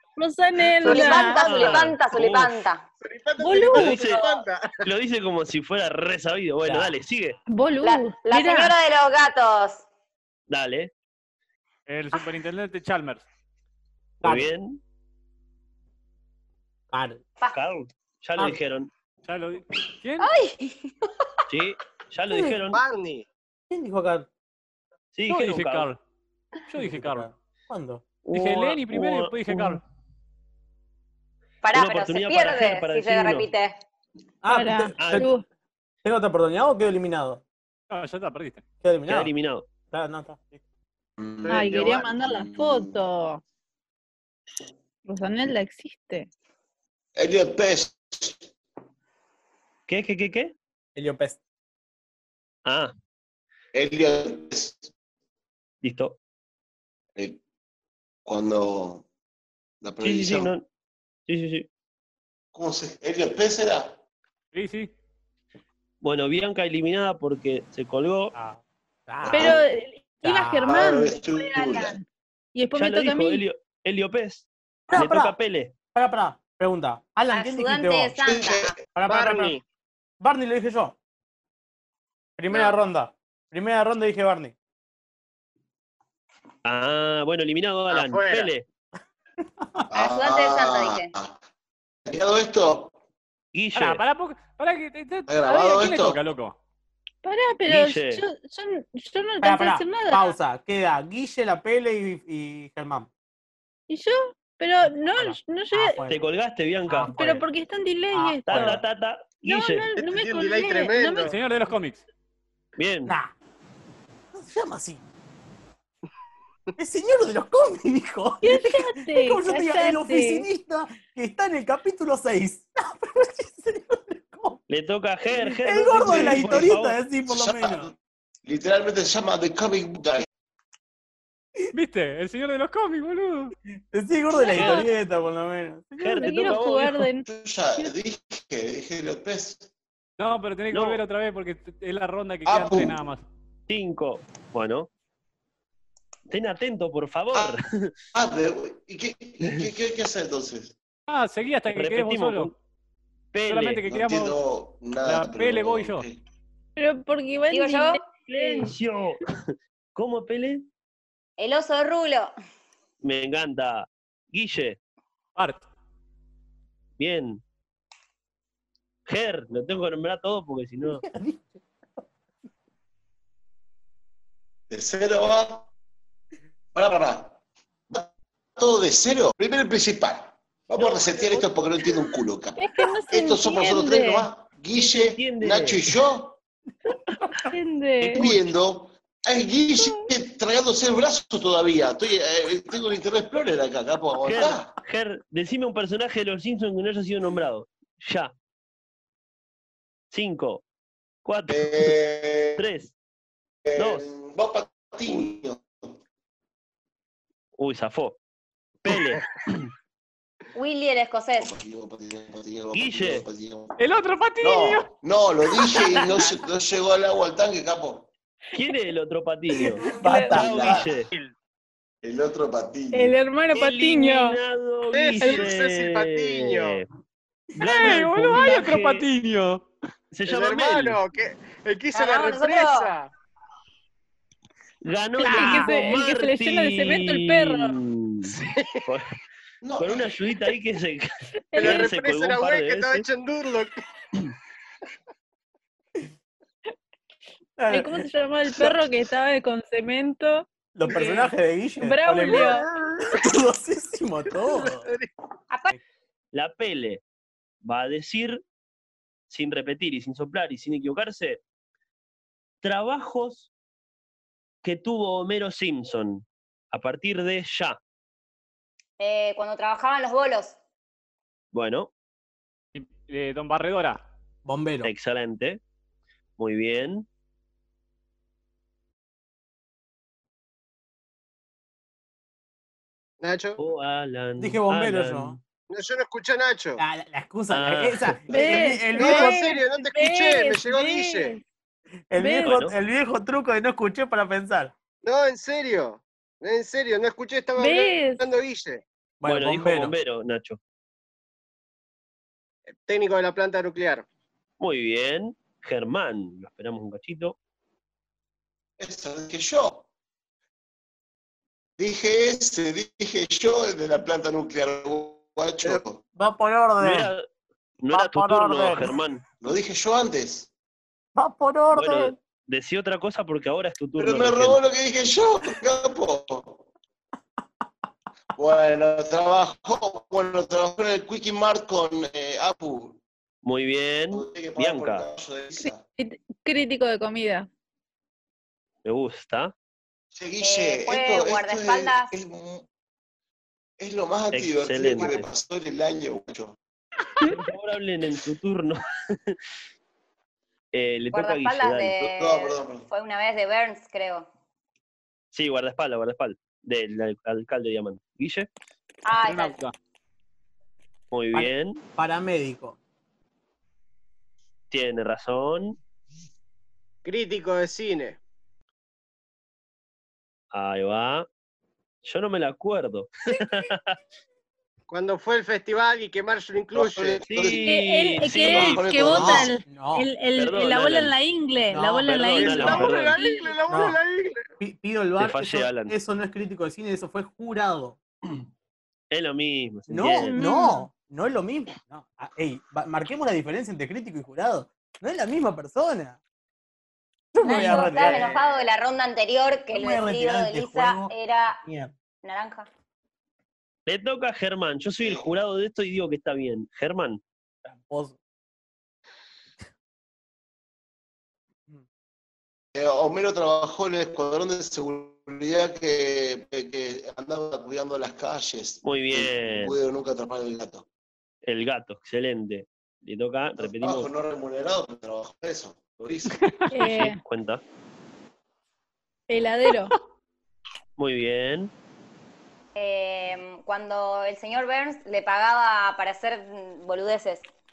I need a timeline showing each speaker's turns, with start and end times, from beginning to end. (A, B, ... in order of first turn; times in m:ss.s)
0:00.2-0:01.8 A
0:00.8-0:01.6 B
0:00.8-0:02.8 C
0:01.2-0:02.5 D
0:03.0-0:04.7 B
0:03.4-0:04.2 A
0:03.7-0:07.4 D
0:06.6-0:07.0 E
0:07.5-0:08.8 A
0:07.8-0:09.8 C
0:10.5-0:10.9 D
0:11.9-0:13.2 F
0:14.2-0:14.8 D
0:14.2-0:14.5 E
0:16.9-0:17.2 E
0:17.5-0:18.9 D
0:19.2-0:20.3 F
0:20.2-0:20.7 C
0:21.5-0:22.8 D
0:22.3-0:22.6 E
0:22.7-0:23.2 B
0:23.7-0:24.3 E
0:25.1-0:25.9 D
0:25.3-0:26.0 F
0:26.7-0:27.3 F
0:26.7-0:28.0 E
0:28.2-0:29.8 D
0:28.3-0:29.8 F
0:31.6-0:33.8 C
0:31.7-0:33.5 D
0:34.4-0:35.3 E
0:34.5-0:35.4 A
0:35.0-0:35.3 D
0:36.0-0:37.4 E
0:37.9-0:38.6 F
0:38.8-0:39.3 E
0:39.1-0:39.7 D
0:39.9-0:40.6 E
0:41.2-0:42.9 G
0:41.4-0:42.1 B
0:41.5-0:43.4 A
0:45.0-0:46.3 A
0:47.1-0:48.4 G
0:49.9-0:50.5 D
0:50.9-0:51.4 E
0:52.6-0:52.9 D
0:53.7-0:54.9 G
0:55.8-0:56.2 D
0:58.2-0:59.0 G
0:59.8-1:00.5 G
1:00.0-1:00.6 D
1:01.3-1:01.7 D
1:02.5-1:04.0 G
1:04.5-1:04.9 F
1:06.0-1:08.3 D
1:08.3-1:09.6 E
1:09.3-1:09.6 G
1:09.3-1:12.0 A
1:10.2-1:10.8 E
1:10.6-1:12.0 G
1:12.5-1:13.4 A
1:12.7-1:15.7 D
1:14.9-1:15.4 E
1:15.9-1:18.2 E
1:17.3-1:18.8 C
1:18.2-1:18.9 G
1:18.9-1:19.5 E
1:19.0-1:19.6 B
1:20.2-1:20.9 E
1:22.4-1:24.5 E
1:26.6-1:28.6 D
1:27.9-1:28.5 B
1:29.9-1:31.4 G
1:29.9-1:31.1 C
1:32.0-1:32.9 G
1:33.5-1:34.0 D
1:33.8-1:36.6 F
1:35.3-1:36.2 G
1:37.2-1:40.4 A
1:37.6-1:38.2 D
1:39.4-1:43.1 E
1:43.9-1:46.0 A
1:44.9-1:46.2 E
1:46.1-1:47.2 D
1:46.9-1:47.4 E
1:47.2-1:48.8 A
1:48.1-1:48.8 E
1:48.4-1:49.9 D
1:49.4-1:51.3 A
1:50.0-1:51.3 B
1:51.2-1:52.0 F
1:52.8-1:53.1 D
1:53.0-1:53.3 E
1:54.3-1:55.0 E
1:56.8-2:04.6 E
1:58.4-2:00.5 A
2:04.7-2:07.0 D
2:05.6-2:07.9 E
2:06.0-2:06.7 G
2:07.2-2:10.2 G
2:11.7-2:13.5 F
2:13.9-2:16.5 E
2:14.4-2:14.9 A
2:14.5-2:14.9 D
2:16.0-2:17.1 D
2:16.2-2:17.9 A
2:17.2-2:19.7 G
2:20.2-2:23.2 F
2:20.7-2:21.0 D
2:22.4-2:23.0 G
2:23.7-2:24.9 D
2:26.3-2:27.9 D
2:28.1-2:30.7 G
2:31.1-2:32.5 F
2:31.7-2:32.5 D
2:33.3-2:33.8 D
2:33.5-2:34.4 F
2:33.9-2:36.2 G
2:35.0-2:36.0 F
2:36.8-2:38.7 A
2:37.5-2:38.7 C
2:38.6-2:40.7 D
2:41.4-2:42.3 C
2:43.0-2:44.8 D
2:45.4-2:45.6 F
2:47.0-2:47.4 D
2:49.1-2:51.0 D
2:50.8-2:52.0 E
2:54.7-2:55.7 G
2:56.7-2:57.4 G
2:57.9-3:06.4 G
3:02.6-3:04.3 A
3:04.7-3:05.9 D
3:07.5-3:08.3 A
3:08.0-3:08.3 D
3:08.1-3:14.7 G
3:09.8-3:10.0 A
3:14.2-3:18.3 D
3:20.1-3:20.6 D
3:21.2-3:22.0 D
3:21.5-3:22.6 G
3:22.6-3:22.9 D
3:23.6-3:25.9 G
3:23.8-3:24.1 D
3:27.6-3:28.2 D
3:28.8-3:29.6 D
3:30.5-3:31.5 C
3:31.4-3:33.8 G
3:32.7-3:33.2 D
3:33.8-3:34.9 F
3:34.4-3:38.1 G
3:38.5-3:41.1 D
3:39.6-3:40.7 E
3:40.0-3:40.3 A
3:40.2-3:41.0 G
3:42.0-3:43.2 G
3:42.9-3:44.4 A
3:43.5-3:46.9 D
3:44.9-3:46.8 B
3:47.5-3:49.0 D
3:47.6-3:49.6 F
3:50.1-3:51.0 D
3:50.2-3:53.1 B
3:51.9-3:52.9 C
3:54.8-3:58.3 D
3:55.2-3:55.8 E
3:55.2-3:57.8 A
3:58.3-3:58.8 B
3:58.8-3:59.1 D
3:59.6-4:00.2 G
3:59.8-4:03.0 D
4:01.5-4:01.9 A
4:01.6-4:03.7 B
4:07.6-4:08.1 E
4:07.7-4:11.2 A
4:10.7-4:14.9 E
4:11.8-4:12.6 A
4:14.4-4:15.1 B
4:15.5-4:15.8 C
4:16.3-4:17.0 D
4:17.6-4:18.4 D
4:19.3-4:21.4 D
4:22.6-4:23.5 D
4:24.6-4:27.8 D
4:29.0-4:30.6 C
4:31.5-4:31.9 D
4:32.7-4:34.0 F
4:34.4-4:34.9 E
4:34.8-4:35.6 D
4:36.4-4:37.1 D
4:43.2-4:43.6 B
4:43.6-4:45.4 D
4:44.4-4:45.4 E
4:45.7-4:46.8 B
4:46.8-4:49.5 E
4:47.5-4:48.3 D
4:48.3-4:51.4 A
4:48.3-4:51.4 B
4:52.1-4:54.7 E
4:52.2-4:52.6 A
4:52.4-4:52.7 D
4:55.0-4:58.8 B
4:57.6-4:58.2 A
4:59.2-4:59.9 E
4:59.2-5:00.6 D
5:02.7-5:04.0 B
5:04.6-5:07.4 D
5:08.8-5:09.8 G
5:11.8-5:16.0 G
5:15.6-5:17.1 E
5:16.8-5:17.2 D
5:17.8-5:19.2 D
5:17.9-5:19.0 E
5:19.4-5:20.5 G
5:21.2-5:22.2 E
5:21.7-5:24.6 D
5:24.0-5:26.6 G
5:28.3-5:33.0 G
5:33.4-5:35.1 D
5:34.1-5:35.8 G
5:36.0-5:37.5 A
5:38.8-5:39.5 D
5:40.1-5:42.6 G
5:40.4-5:42.1 C
5:43.8-5:46.6 G
5:44.3-5:45.3 D
5:47.2-5:49.4 D
5:50.7-5:52.0 D
5:51.1-5:54.3 C
5:52.1-5:52.8 G
5:55.3-5:58.5 D
5:59.0-5:59.6 C
5:59.2-5:59.7 F
6:01.1-6:01.8 D
6:01.3-6:02.8 E
6:04.7-6:05.8 D
6:07.0-6:08.2 B
6:10.5-6:11.3 D
6:12.0-6:14.0 D
6:14.9-6:17.2 B
6:16.7-6:17.7 G
6:17.2-6:19.4 D
6:17.6-6:23.5 A
6:18.2-6:19.5 G
6:19.6-6:20.1 E
6:20.3-6:21.1 D
6:21.7-6:22.8 E
6:22.0-6:23.1 D
6:22.3-6:24.5 B
6:23.7-6:24.0 E
6:24.6-6:28.0 E
6:25.2-6:26.0 D
6:29.1-6:30.4 D
6:29.9-6:36.2 E
6:30.3-6:30.9 A
6:37.3-6:38.3 E
6:37.4-6:41.6 C
6:37.8-6:38.4 B
6:39.7-6:41.9 E
6:42.2-6:42.7 C
6:43.8-6:47.2 D
6:47.6-6:48.2 E
6:52.7-7:00.8 G
6:58.8-6:59.8 D
7:01.4-7:04.1 D
7:03.6-7:06.4 G
7:06.7-7:07.2 A
7:06.8-7:07.6 D
7:09.3-7:09.9 A
7:11.0-7:11.7 D
7:12.7-7:17.5 C